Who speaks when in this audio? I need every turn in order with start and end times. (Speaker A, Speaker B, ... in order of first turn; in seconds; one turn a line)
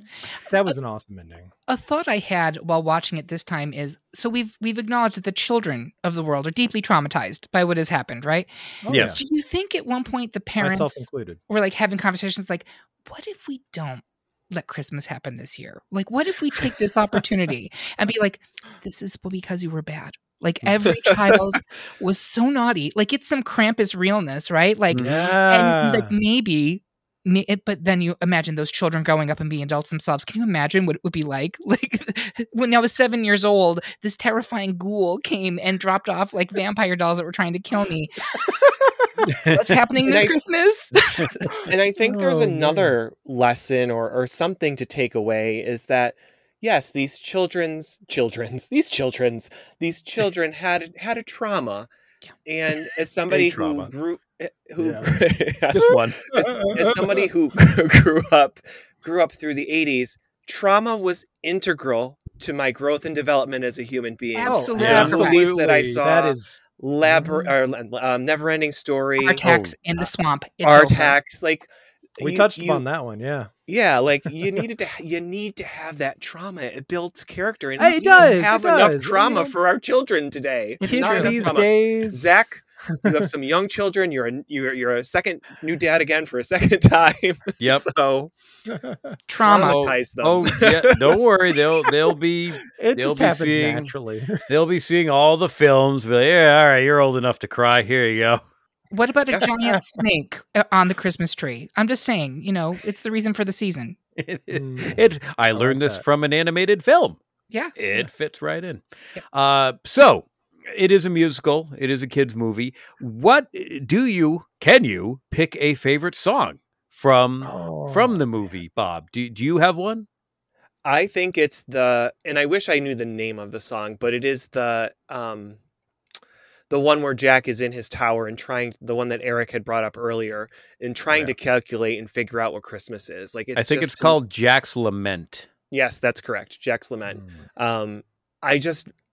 Speaker A: 0.5-1.5
Speaker B: 1.7-38.2
Speaker A: 8.8-9.2
Speaker C: 8.9-9.2
Speaker A: 10.6-11.4
Speaker C: 24.9-25.3
Speaker A: 25.0-26.2
Speaker B: 39.5-41.5
Speaker D: 40.0-40.4
Speaker D: 41.7-51.9
Speaker A: 42.0-43.0
Speaker D: 52.5-69.4
Speaker C: 53.3-53.9
Speaker A: 54.8-55.1
Speaker C: 55.7-56.2
Speaker A: 55.8-57.2
Speaker B: 64.3-65.5
Speaker A: 64.4-67.5
Speaker C: 64.8-65.1
Speaker B: 69.2-71.2
Speaker C: 69.4-69.7
Speaker D: 70.6-72.8
Speaker A: 72.2-73.5
Speaker D: 73.7-88.3
Speaker A: 77.8-79.5
Speaker B: 80.8-81.5
Speaker A: 80.8-82.3
Speaker A: 83.0-83.3
Speaker C: 87.6-87.9
Speaker A: 88.7-89.2
Speaker B: 89.3-89.8
Speaker D: 89.4-91.9
Speaker C: 89.5-93.9
Speaker A: 92.8-94.5
Speaker C: 94.5-98.4
Speaker B: 98.9-104.0
Speaker C: 104.2-107.2
Speaker A: 104.5-106.0
Speaker B: 107.5-107.8
Speaker C: 107.8-120.1
Speaker A: 117.4-118.2
Speaker D: 120.8-125.6
Speaker D: 126.7-134.2
Speaker C: 133.6-135.5
Speaker D: 135.7-138.9
Speaker A: 137.1-137.4